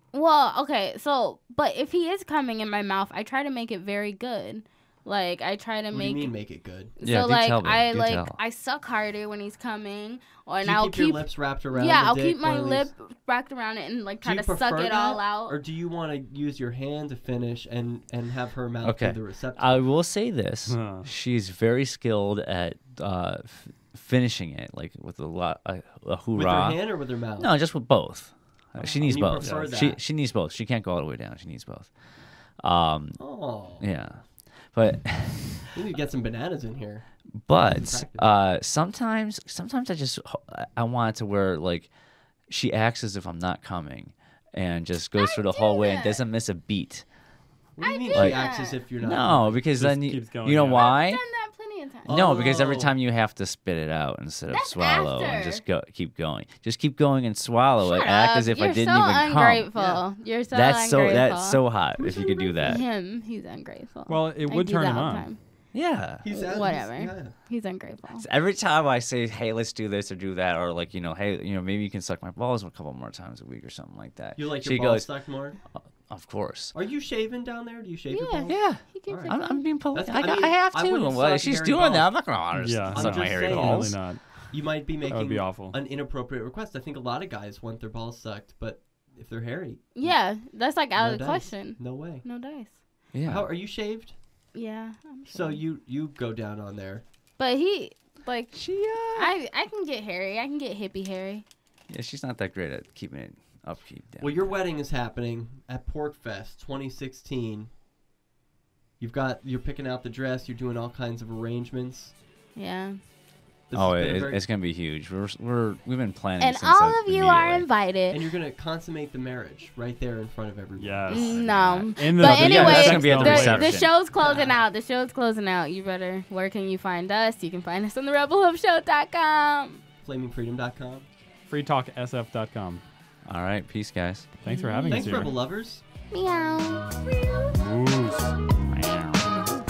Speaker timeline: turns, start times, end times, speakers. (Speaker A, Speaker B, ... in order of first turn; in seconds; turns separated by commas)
Speaker A: 0.1-6.4, Speaker B: 5.9-7.0, Speaker A: 7.0-15.6, Speaker C: 7.0-8.4, Speaker B: 10.6-12.9, Speaker B: 14.2-19.8, Speaker C: 18.8-31.9, Speaker D: 20.7-21.1, Speaker B: 26.3-27.5, Speaker D: 28.8-29.7, Speaker B: 28.8-30.0, Speaker C: 32.5-35.8, Speaker B: 33.2-34.0, Speaker B: 35.7-38.3, Speaker C: 37.3-41.9, Speaker C: 42.5-47.0, Speaker A: 45.1-46.2, Speaker B: 47.8-49.6, Speaker A: 47.8-48.8, Speaker C: 48.1-51.2, Speaker D: 49.7-50.9, Speaker A: 50.7-52.4, Speaker B: 52.0-53.0, Speaker C: 52.1-59.7, Speaker A: 54.5-55.6, Speaker A: 57.8-62.0, Speaker B: 59.7-60.0, Speaker C: 60.5-62.8, Speaker B: 62.0-62.8, Speaker A: 62.6-65.4, Speaker D: 64.1-65.3, Speaker C: 65.7-66.2, Speaker B: 66.2-67.3, Speaker A: 66.2-68.2, Speaker C: 68.1-76.7, Speaker B: 74.3-75.6, Speaker B: 76.7-90.3, Speaker A: 78.1-79.7, Speaker C: 78.5-84.1, Speaker D: 82.5-85.8, Speaker A: 89.9-92.8, Speaker B: 90.9-92.2, Speaker C: 93.1-93.5, Speaker B: 93.2-94.2, Speaker A: 94.5-95.6, Speaker B: 95.3-97.0, Speaker A: 97.4-101.4, Speaker C: 98.5-99.3, Speaker C: 101.9-104.7, Speaker B: 104.2-107.7, Speaker B: 109.0-112.1, Speaker A: 112.5-113.0, Speaker B: 113.7-114.4, Speaker C: 113.7-117.7, Speaker A: 116.4-118.2, Speaker B: 118.1-121.5, Speaker D: 120.8-121.4, Speaker A: 121.1-129.8, Speaker C: 121.3-124.0, Speaker D: 121.9-123.8, Speaker B: 124.1-124.6, Speaker B: 130.0-131.1, Speaker D: 131.5-132.8, Speaker C: 133.2-134.3, Speaker D: 134.4-135.3, Speaker A: 134.4-135.4, Speaker B: 134.9-135.8, Speaker A: 136.1-137.6, Speaker D: 137.5-138.3, Speaker C: 138.7-139.6